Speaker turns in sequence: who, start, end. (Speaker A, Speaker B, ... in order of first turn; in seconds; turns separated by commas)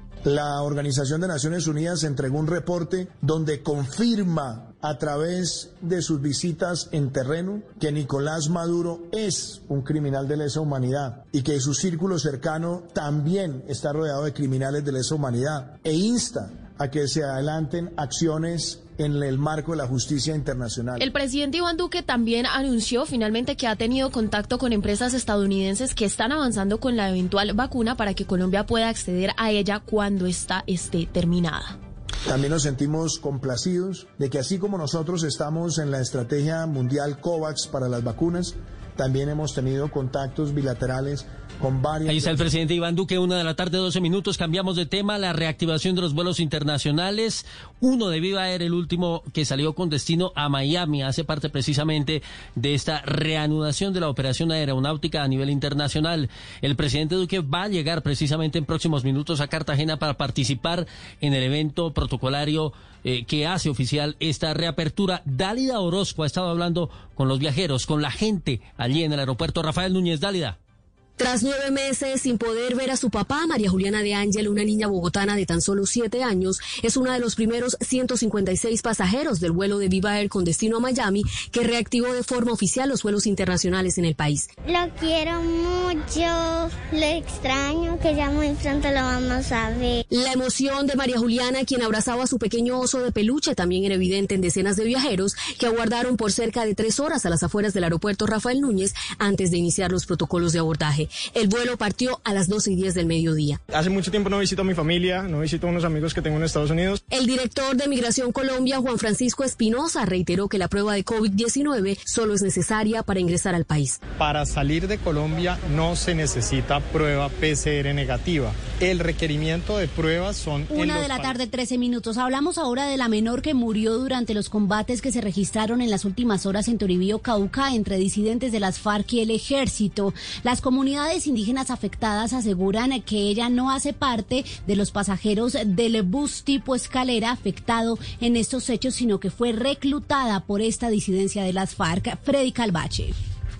Speaker A: 0.2-21.1, Speaker B: 21.0-31.8, Speaker A: 32.3-42.4, Speaker C: 42.1-70.6, Speaker D: 71.2-84.5, Speaker E: 84.7-90.0, Speaker D: 90.1-103.6, Speaker F: 103.7-107.0, Speaker D: 107.1-114.0, Speaker F: 114.1-121.4, Speaker G: 120.7-143.2